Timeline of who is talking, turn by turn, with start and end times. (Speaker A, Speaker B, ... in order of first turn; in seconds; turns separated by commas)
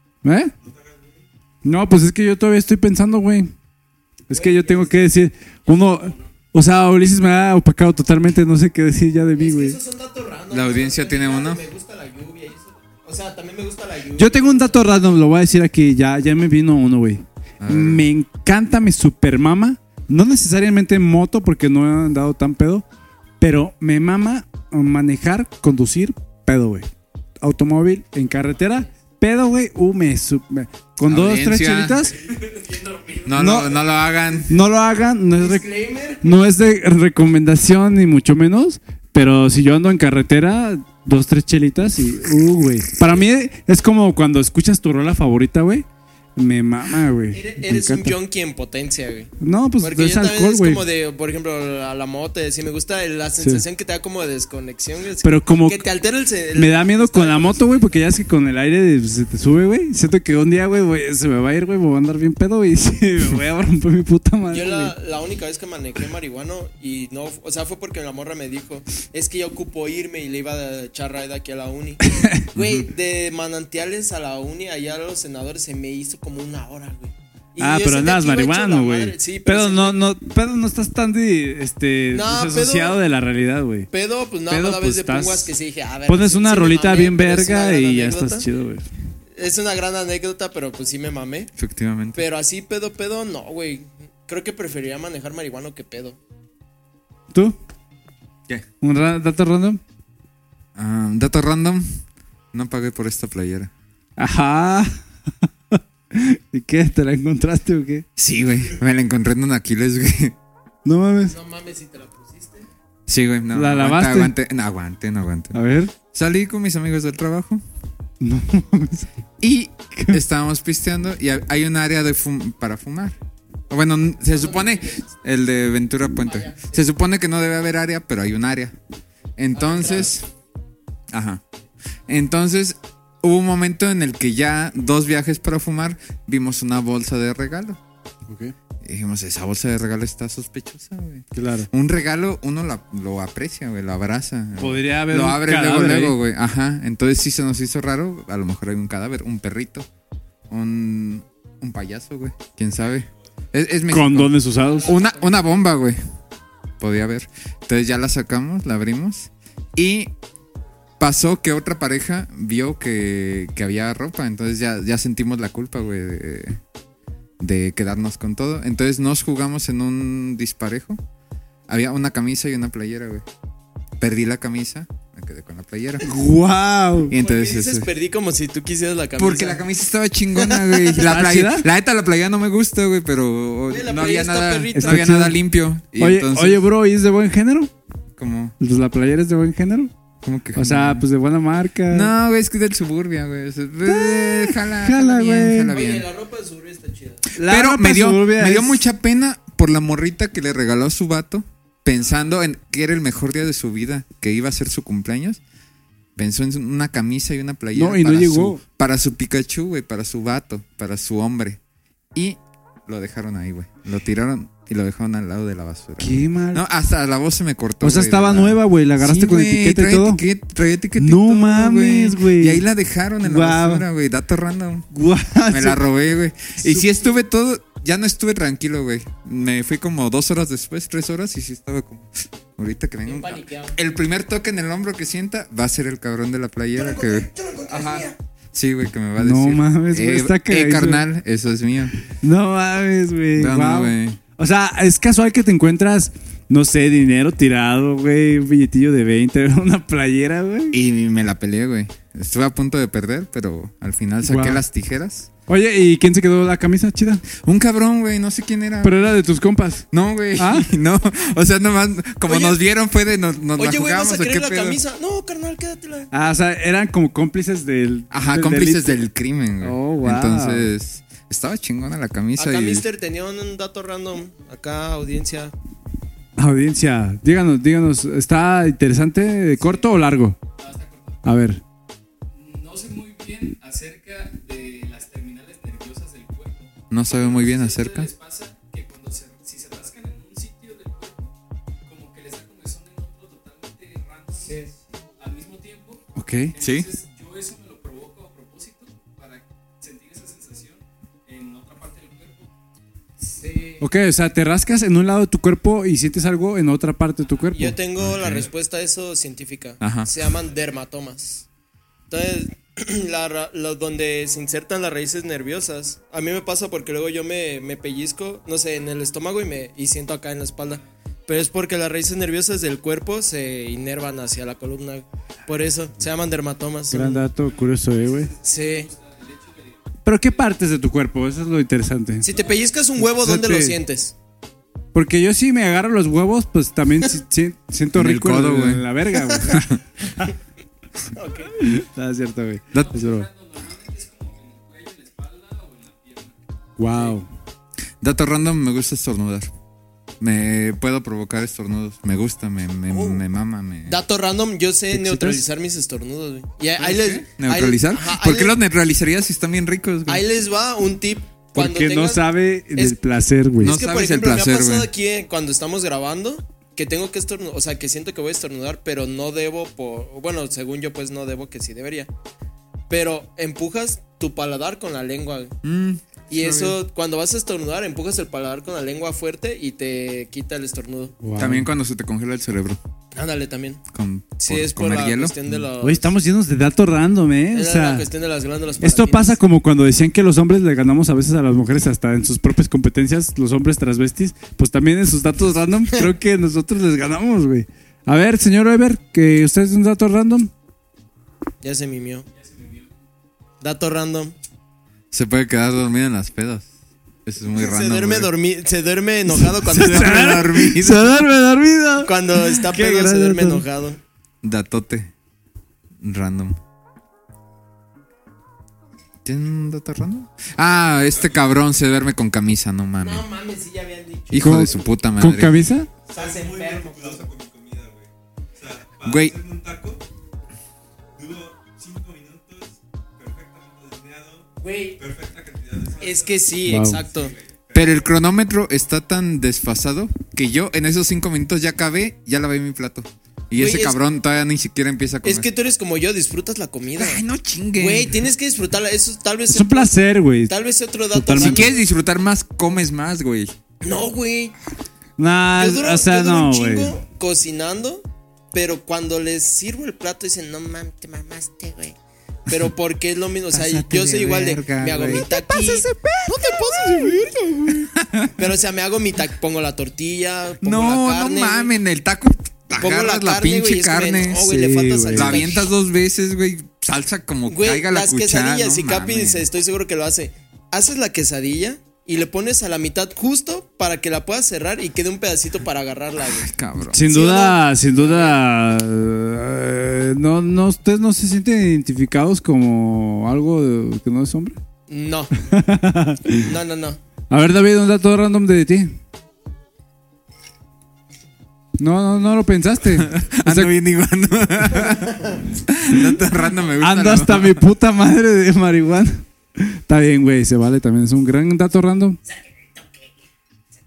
Speaker A: 0.2-0.5, Speaker B: 0.6-1.2, Speaker A: 1.6-3.5, Speaker A: 4.3-9.8, Speaker C: 4.3-5.1, Speaker C: 9.4-14.8, Speaker D: 10.5-11.6, Speaker A: 14.2-22.9, Speaker D: 17.6-18.0, Speaker A: 23.4-26.9, Speaker A: 27.4-32.2, Speaker D: 31.1-32.1, Speaker D: 33.2-34.5, Speaker A: 33.3-33.8, Speaker A: 34.5-35.7, Speaker C: 35.4-36.4, Speaker A: 36.2-48.1, Speaker C: 47.3-58.0, Speaker A: 49.4-50.8, Speaker A: 55.2-55.8, Speaker A: 56.5-64.9, Speaker C: 64.5-80.0, Speaker A: 72.1-72.5, Speaker D: 72.5-72.9, Speaker A: 77.6-83.9, Speaker C: 82.1-83.0, Speaker C: 83.9-88.5, Speaker A: 84.5-85.5, Speaker A: 86.1-88.8, Speaker C: 89.3-91.5, Speaker D: 91.6-92.2, Speaker C: 92.1-96.2, Speaker A: 97.3-97.6, Speaker A: 98.8-99.8, Speaker D: 100.8-101.8, Speaker D: 102.5-103.7, Speaker A: 104.2-105.0, Speaker A: 105.7-108.1, Speaker D: 108.2-110.4, Speaker A: 110.8-111.4, Speaker C: 111.3-112.7, Speaker D: 113.1-117.6, Speaker A: 113.5-114.3, Speaker A: 115.5-115.9, Speaker A: 118.2-119.1, Speaker D: 119.4-123.2, Speaker A: 119.9-120.2, Speaker D: 123.7-128.7, Speaker C: 124.3-125.1, Speaker C: 126.2-126.8, Speaker D: 129.4-130.2, Speaker C: 129.5-130.2, Speaker D: 131.1-131.4, Speaker D: 132.1-137.8, Speaker A: 138.3-138.5, Speaker D: 138.8-149.9, Speaker A: 141.3-141.7, Speaker A: 144.6-146.2, Speaker D: 150.5-156.0, Speaker A: 153.9-154.9, Speaker C: 154.7-155.5, Speaker D: 156.8-160.1, Speaker D: 161.0-166.6, Speaker D: 167.4-171.0, Speaker D: 171.7-173.2, Speaker D: 174.0-176.1, Speaker A: 176.0-177.2, Speaker D: 177.1-177.9, Speaker C: 177.2-179.6, Speaker D: 179.2-186.6, Speaker C: 180.3-181.0, Speaker A: 181.0-181.7, Speaker C: 183.7-185.1, Speaker A: 184.8-185.4, Speaker A: 186.0-187.7, Speaker D: 188.2-188.6, Speaker A: 188.6-189.9, Speaker D: 190.2-191.1, Speaker A: 190.6-192.1, Speaker D: 191.9-196.1, Speaker A: 193.9-195.7, Speaker C: 195.7-197.2, Speaker A: 197.4-198.9, Speaker D: 197.4-205.4, Speaker D: 206.2-211.6, Speaker A: 207.7-208.6, Speaker D: 212.1-224.9, Speaker A: 216.0-216.6, Speaker A: 217.8-220.2, Speaker A: 221.0-222.6, Speaker A: 223.2-223.9, Speaker A: 224.9-225.8, Speaker D: 225.5-242.0, Speaker C: 233.1-233.7, Speaker C: 236.8-238.2, Speaker A: 239.2-241.1, Speaker A: 242.2-250.8, Speaker D: 243.4-244.2, Speaker D: 250.7-255.3, Speaker A: 254.2-254.6, Speaker A: 255.5-257.2, Speaker D: 257.4-259.1, Speaker A: 258.8-259.9, Speaker D: 259.9-264.8, Speaker A: 260.4-260.7, Speaker C: 262.3-262.6, Speaker C: 263.6-266.1, Speaker A: 266.1-269.1, Speaker D: 268.1-272.9, Speaker A: 269.6-270.7, Speaker C: 272.4-275.5, Speaker A: 276.4-280.4, Speaker E: 279.6-279.9, Speaker E: 280.6-281.2, Speaker A: 281.2-281.6, Speaker E: 282.3-291.3, Speaker D: 286.9-288.1, Speaker E: 291.8-294.6, Speaker C: 294.4-294.7, Speaker E: 295.2-302.5, Speaker A: 296.1-296.5, Speaker D: 296.6-296.9, Speaker C: 303.2-303.8, Speaker A: 303.8-307.8, Speaker C: 307.5-311.4, Speaker D: 308.1-308.4, Speaker D: 309.8-310.1, Speaker C: 312.1-327.3, Speaker A: 326.9-328.3, Speaker E: 327.4-330.5, Speaker C: 328.4-328.9, Speaker A: 330.1-332.3, Speaker C: 332.2-334.1, Speaker A: 333.0-333.8, Speaker A: 334.9-339.7, Speaker D: 337.9-338.9, Speaker D: 339.5-339.8, Speaker C: 341.1-341.5, Speaker A: 341.5-343.3, Speaker E: 342.7-346.4, Speaker A: 346.8-347.3, Speaker D: 348.0-349.5, Speaker D: 350.2-354.0, Speaker C: 352.9-353.2, Speaker C: 353.9-358.5, Speaker A: 354.9-355.4, Speaker D: 356.8-360.2, Speaker C: 360.1-362.2, Speaker A: 361.6-363.8, Speaker C: 363.6-372.1, Speaker D: 363.6-364.9, Speaker C: 372.9-375.6, Speaker D: 375.6-376.8, Speaker C: 376.3-381.2, Speaker A: 381.2-381.7, Speaker D: 381.4-382.8, Speaker C: 383.1-383.8, Speaker D: 383.9-385.6, Speaker C: 384.4-386.1, Speaker A: 385.8-388.1, Speaker C: 387.5-389.4, Speaker A: 388.8-400.5, Speaker C: 401.6-402.3, Speaker E: 402.3-402.9, Speaker C: 403.6-404.4, Speaker D: 405.1-406.7, Speaker D: 407.2-408.3, Speaker C: 407.5-410.6, Speaker A: 409.3-413.6, Speaker D: 409.7-411.3, Speaker C: 412.0-414.0, Speaker D: 414.4-415.1, Speaker D: 416.0-416.6, Speaker D: 419.2-423.3, Speaker B: 421.0-421.7, Speaker C: 423.0-424.9, Speaker D: 424.3-425.6, Speaker A: 424.4-425.9, Speaker B: 426.1-430.0, Speaker C: 426.1-427.3, Speaker D: 429.0-429.4, Speaker B: 431.2-438.0, Speaker C: 434.6-435.0, Speaker C: 436.0-437.3, Speaker A: 436.7-437.0, Speaker D: 437.7-445.5, Speaker C: 443.6-444.0, Speaker C: 445.2-451.8, Speaker D: 447.0-448.3, Speaker A: 449.5-450.5, Speaker A: 451.1-451.7, Speaker D: 451.4-453.6, Speaker C: 453.8-454.6, Speaker A: 455.2-457.0, Speaker C: 455.6-462.0, Speaker C: 462.5-465.9, Speaker D: 463.5-465.3, Speaker A: 465.2-467.9, Speaker C: 466.6-467.2, Speaker D: 467.7-468.3, Speaker C: 468.4-471.7, Speaker D: 470.6-474.5, Speaker C: 472.8-475.7, Speaker A: 474.4-475.5, Speaker D: 475.1-479.4, Speaker C: 477.5-486.5, Speaker D: 486.2-487.0, Speaker A: 486.9-494.6, Speaker C: 487.1-488.4, Speaker C: 494.9-495.3, Speaker A: 495.5-496.5, Speaker C: 496.3-497.0, Speaker A: 497.3-499.0, Speaker A: 501.8-503.7, Speaker D: 502.9-507.6, Speaker A: 506.8-512.2